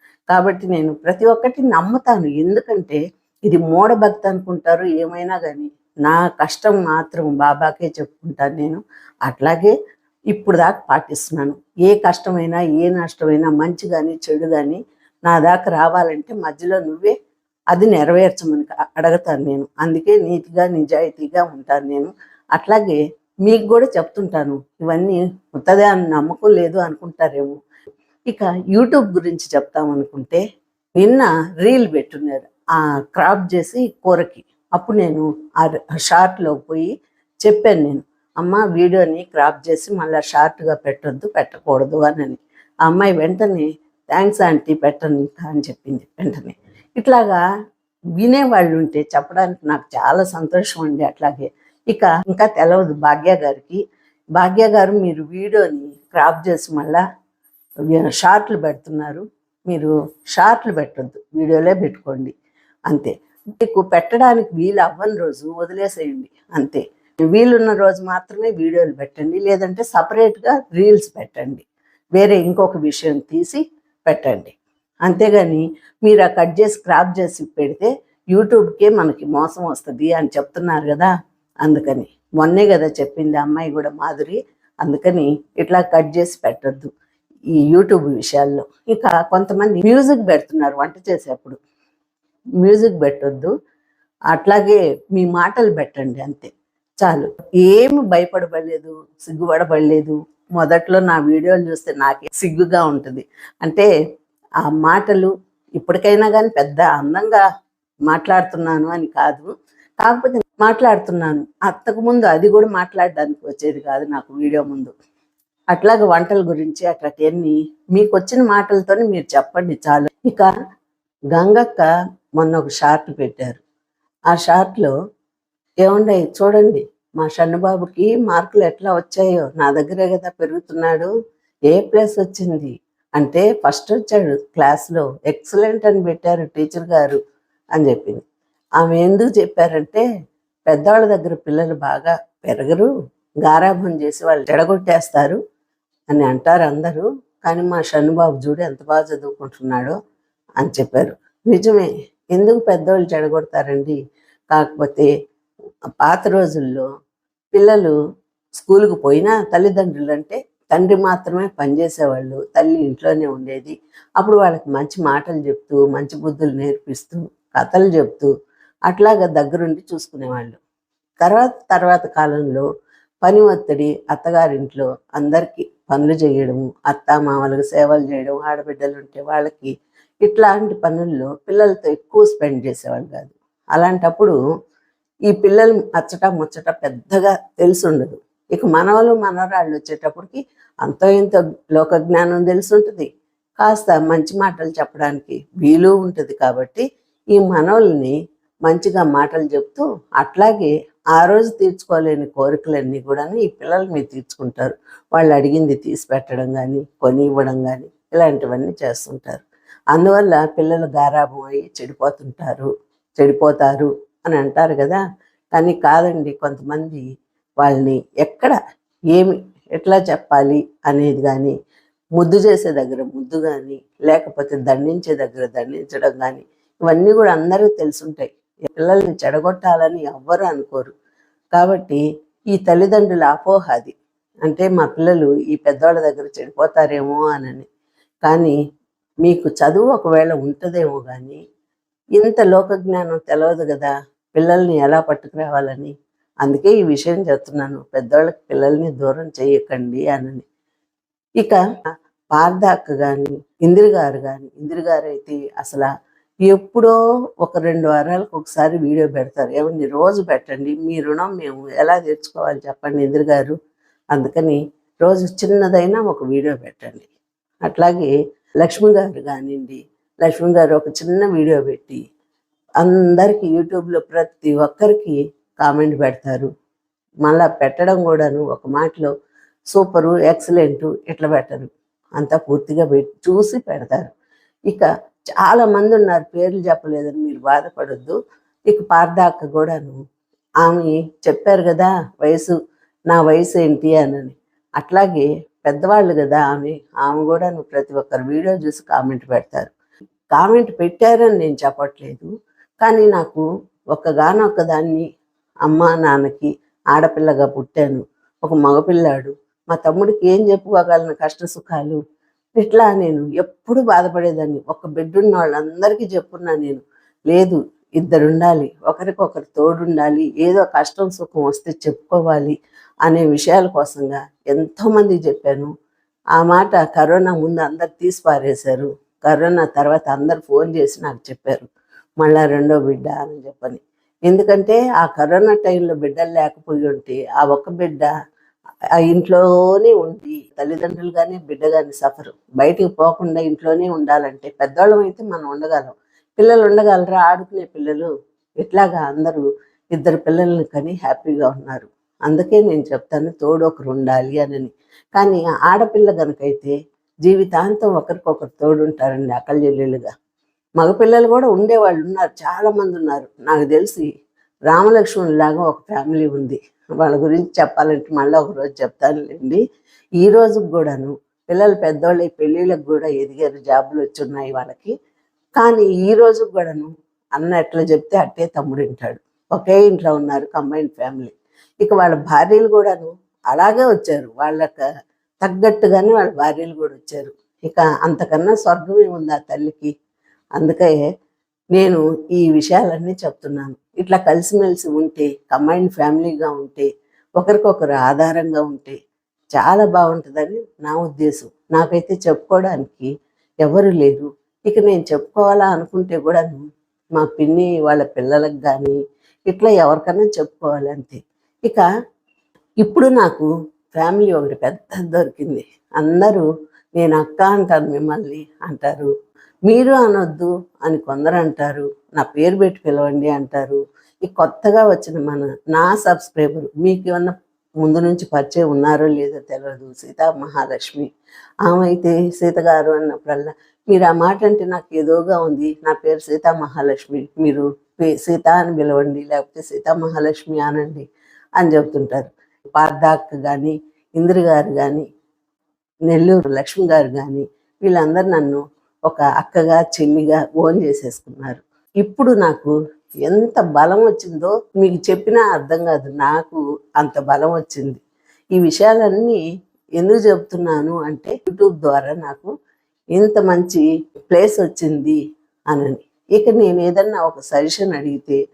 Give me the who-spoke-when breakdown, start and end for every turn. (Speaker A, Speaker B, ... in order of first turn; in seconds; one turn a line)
Speaker A: 0.3-9.7
Speaker A: 10.3-17.1
Speaker A: 17.7-27.6
Speaker A: 28.3-30.4
Speaker A: 31.0-36.9
Speaker A: 37.4-47.4
Speaker A: 48.2-53.8
Speaker A: 54.4-57.0
Speaker A: 57.9-62.3
Speaker A: 62.9-71.6
Speaker A: 72.2-81.1
Speaker A: 81.6-86.9
Speaker A: 87.6-91.6
Speaker A: 92.6-93.5
Speaker A: 94.3-96.5
Speaker A: 97.0-103.9
Speaker A: 104.6-107.4
Speaker A: 108.1-114.9
Speaker A: 115.7-120.5
Speaker A: 121.3-121.9
Speaker A: 122.4-123.6
Speaker A: 124.3-124.9
Speaker A: 125.8-131.1
Speaker A: 131.7-137.2
Speaker A: 137.7-138.2
Speaker A: 138.8-140.0
Speaker A: 140.7-142.9
Speaker A: 143.4-145.4
Speaker A: 146.1-149.9
Speaker A: 150.6-154.0
Speaker A: 154.5-155.1
Speaker A: 156.0-156.8
Speaker A: 157.5-157.9
Speaker A: 158.6-168.3
Speaker A: 168.9-170.6
Speaker A: 171.2-172.6
Speaker A: 173.2-179.7
Speaker A: 180.2-184.3
Speaker A: 185.3-198.1
Speaker A: 198.7-215.0
Speaker A: 215.5-217.0
Speaker A: 217.6-218.6
Speaker A: 219.1-221.5
Speaker A: 222.2-230.9
Speaker A: 231.5-232.0
Speaker A: 232.5-233.9
Speaker A: 234.4-237.7
Speaker A: 238.2-238.6
Speaker A: 239.2-241.4
Speaker A: 242.2-250.4
Speaker A: 252.3-255.9
Speaker A: 256.4-263.6
Speaker A: 264.1-267.1
Speaker A: 267.6-272.0
Speaker A: 272.8-276.5
Speaker A: 277.2-279.1
Speaker A: 279.7-284.1
Speaker A: 285.4-288.1
Speaker A: 288.7-289.9
Speaker A: 290.6-292.5
Speaker A: 293.1-299.7
Speaker A: 300.3-302.3
Speaker A: 302.8-305.0
Speaker A: 305.6-312.0
Speaker A: 312.6-322.5
Speaker A: 323.0-325.7
Speaker A: 326.3-331.7
Speaker A: 332.2-338.1
Speaker A: 339.0-348.1
Speaker A: 348.6-360.1
Speaker A: 360.8-364.1
Speaker A: 364.7-369.6
Speaker A: 370.2-374.9
Speaker A: 375.6-384.8
Speaker A: 385.4-389.9
Speaker A: 390.6-391.0
Speaker A: 391.7-399.0
Speaker A: 399.5-403.1
Speaker A: 403.6-406.6
Speaker A: 407.1-409.0
Speaker A: 409.5-411.9
Speaker A: 412.8-419.1
Speaker A: 419.7-431.1
Speaker A: 431.6-441.0
Speaker A: 441.6-445.1
Speaker A: 446.1-452.7
Speaker A: 453.2-458.0
Speaker A: 458.6-459.4
Speaker A: 460.0-462.5
Speaker A: 463.1-465.2
Speaker A: 465.7-468.4